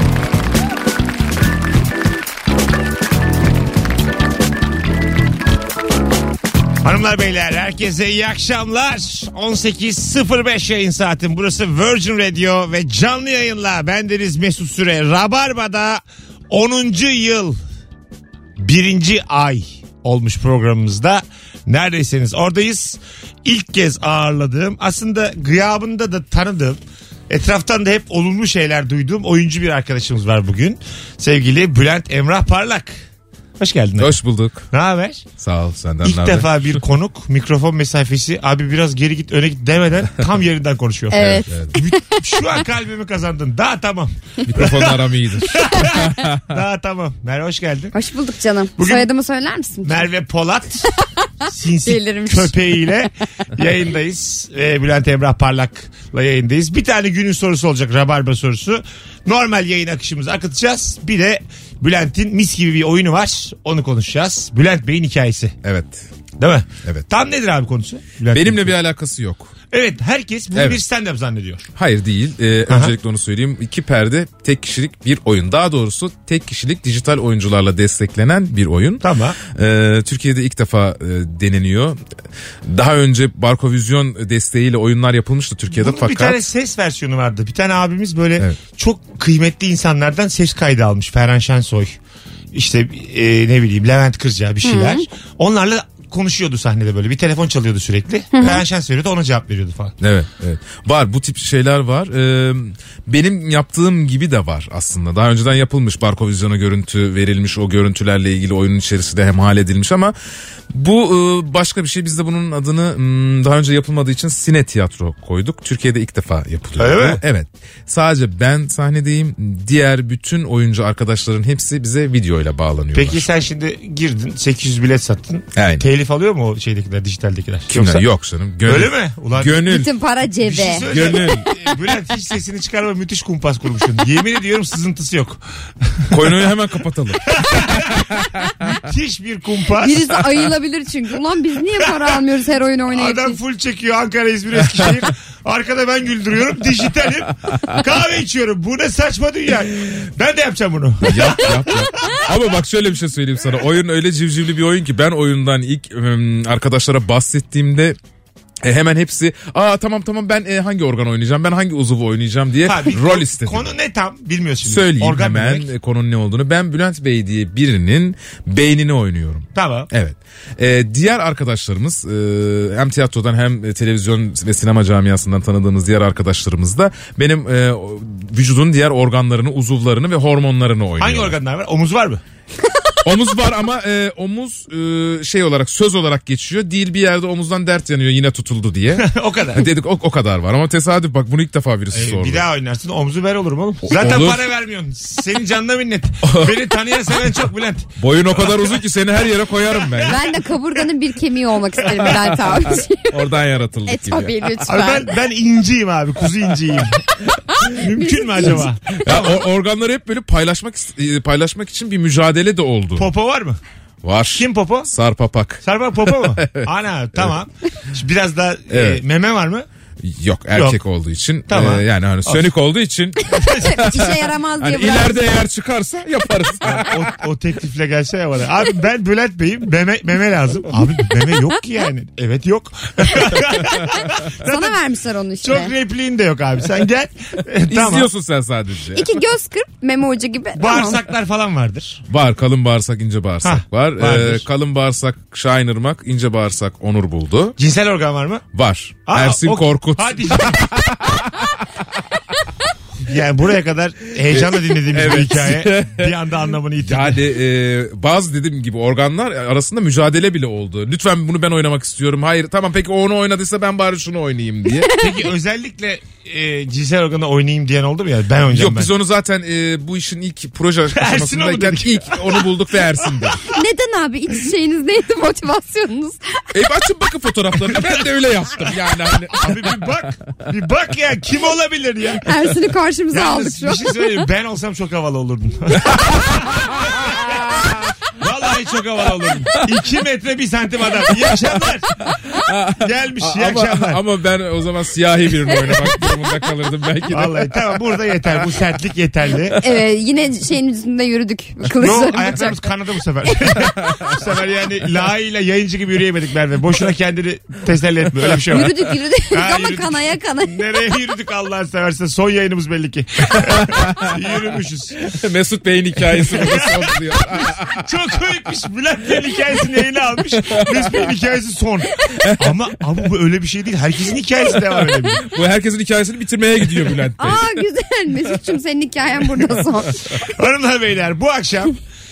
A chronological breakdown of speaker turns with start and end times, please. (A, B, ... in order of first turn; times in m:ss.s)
0:06.8-0:17.6 A
0:18.6-0:32.9 A
0:33.6-0:34.2 A
0:34.0-0:34.7 B
0:34.7-0:35.2 A
0:35.4-0:36.5 B
0:36.0-0:48.0 A
0:41.1-0:42.2 C
0:41.2-0:41.7 B
0:44.4-0:46.4 B
0:47.9-0:50.0 C
0:48.8-0:49.1 A
0:49.8-0:50.9 A
0:51.5-1:05.6 A
0:51.8-0:53.1 C
1:05.6-1:06.1 B
1:06.4-1:08.8 A
1:08.3-1:09.5 B
1:09.7-1:11.7 A
1:10.6-1:10.8 B
1:11.8-1:22.0 B
1:12.7-1:12.9 A
1:19.0-1:19.4 A
1:22.7-1:26.4 B
1:25.7-1:32.0 A
1:32.5-1:40.0 A
1:34.6-1:35.0 C
1:38.3-1:38.6 C
1:40.0-1:50.2 B
1:50.7-2:03.2 B
1:56.8-1:57.2 A
2:02.9-2:08.1 A
2:05.6-2:05.9 B
2:07.7-2:09.9 B
2:08.6-2:09.7 A
2:09.6-2:10.9 C
2:10.4-2:16.3 A
2:10.8-2:11.6 B
2:16.1-2:18.5 B
2:17.3-2:18.1 A
2:18.6-2:20.2 A
2:19.8-2:23.4 C
2:22.9-2:32.3 A
2:31.0-2:38.0 B
2:38.6-2:43.7 B
2:42.6-2:45.7 A
2:44.6-3:01.4 B
2:49.6-2:49.9 A
3:01.0-3:02.2 A
3:03.0-3:12.5 B
3:08.9-3:09.7 A
3:11.9-3:18.8 A
3:13.8-3:14.5 B
3:16.2-3:16.8 B
3:18.0-3:20.3 B
3:19.6-3:20.2 A
3:20.0-3:23.2 C
3:21.9-3:22.2 A
3:23.1-3:24.5 B
3:23.9-3:25.1 C
3:24.7-3:27.0 A
3:27.6-3:28.6 C
3:27.7-3:29.3 A
3:28.5-3:33.1 B
3:33.0-3:33.6 A
3:34.0-3:36.7 B
3:34.4-3:34.9 A
3:35.6-3:39.7 A
3:38.7-3:39.0 B
3:40.0-3:47.0 B
3:40.5-3:40.8 A
3:41.5-3:42.4 A
3:43.3-3:43.8 A
3:43.4-3:45.4 C
3:46.6-3:54.8 A
3:54.1-3:55.7 C
3:55.4-3:58.1 A
3:57.7-3:59.2 B
3:59.0-4:01.0 C
4:00.6-4:02.0 A
4:02.1-4:07.6 B
4:03.4-4:04.4 A
4:07.6-4:08.4 A
4:08.5-4:11.6 B
4:09.1-4:10.9 A
4:13.0-4:17.2 A
4:14.3-4:16.1 B
4:16.8-4:24.9 B
4:24.8-4:25.2 C
4:25.0-4:28.9 A
4:28.5-4:33.4 B
4:30.9-4:32.5 A
4:33.5-4:36.2 C
4:36.5-4:39.9 B
4:37.7-4:38.0 A
4:39.3-4:42.3 A
4:42.2-4:44.0 C
4:43.1-4:47.4 A
4:45.8-4:47.9 B
4:48.2-4:52.0 A
4:52.1-4:57.4 B
4:52.8-4:54.0 A
4:57.1-4:59.6 A
4:59.6-5:02.6 C
5:01.8-5:08.8 A
5:03.8-5:04.1 B
5:08.5-5:10.6 C
5:09.3-5:15.0 A
5:13.3-5:14.1 B
5:15.0-5:17.9 B
5:16.1-5:25.2 A
5:20.3-5:21.0 B
5:22.1-5:22.7 B
5:25.2-5:27.6 B
5:27.2-5:30.2 C
5:30.3-5:31.8 A